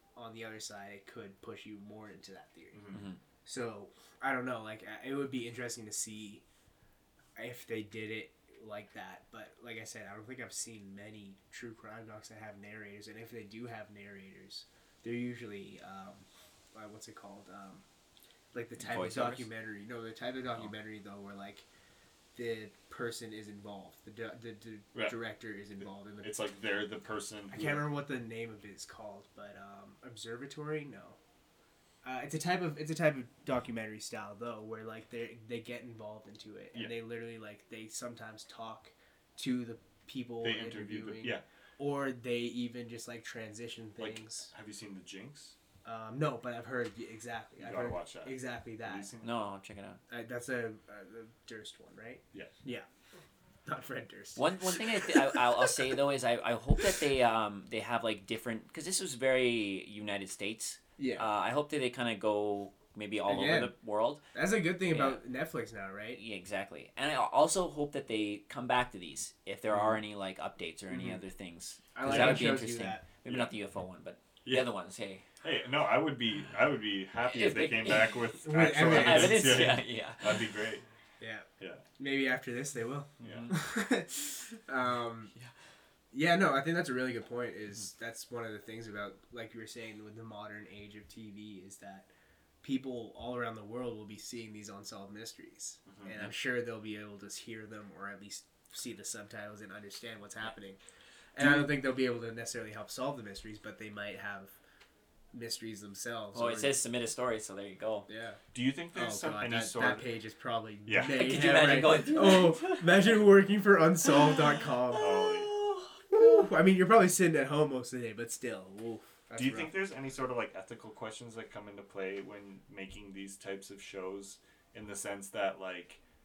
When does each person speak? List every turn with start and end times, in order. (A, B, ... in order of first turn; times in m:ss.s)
0:00.2-0:02.9 A
0:02.7-0:03.1 B
0:02.9-0:03.2 C
0:03.4-0:06.4 A
0:07.4-0:17.8 A
0:18.5-0:21.7 A
0:18.8-0:19.5 C
0:22.4-0:26.3 A
0:26.2-0:27.8 B
0:27.5-0:31.2 A
0:32.0-0:44.5 A
0:40.4-0:41.4 B
0:44.0-0:45.6 B
0:45.8-0:49.1 A
0:47.6-0:49.5 B
0:49.2-0:50.0 C
0:50.1-0:52.9 A
0:53.7-0:56.0 A
0:54.4-1:04.2 C
1:01.0-1:01.3 A
1:03.3-1:03.7 A
1:04.3-1:06.2 A
1:04.9-1:05.2 C
1:06.1-1:15.3 C
1:09.7-1:10.0 A
1:10.9-1:11.2 A
1:12.0-1:13.0 A
1:12.1-1:12.4 B
1:15.4-1:20.8 B
1:17.3-1:20.5 C
1:18.4-1:19.7 A
1:21.2-1:21.5 A
1:21.6-1:21.8 B
1:22.0-1:25.3 A
1:23.2-1:23.6 C
1:23.2-1:23.5 B
1:26.1-1:32.1 A
1:32.6-1:40.8 A
1:35.9-1:36.2 B
1:41.4-1:44.5 A
1:45.3-1:46.7 A
1:46.3-1:48.1 C
1:48.1-1:48.4 A
1:48.5-1:50.1 B
1:48.9-1:55.1 A
1:50.9-1:51.3 B
1:51.0-1:53.2 C
1:54.0-1:56.5 C
1:55.0-1:55.5 B
1:56.1-1:59.7 A
1:59.4-2:06.0 B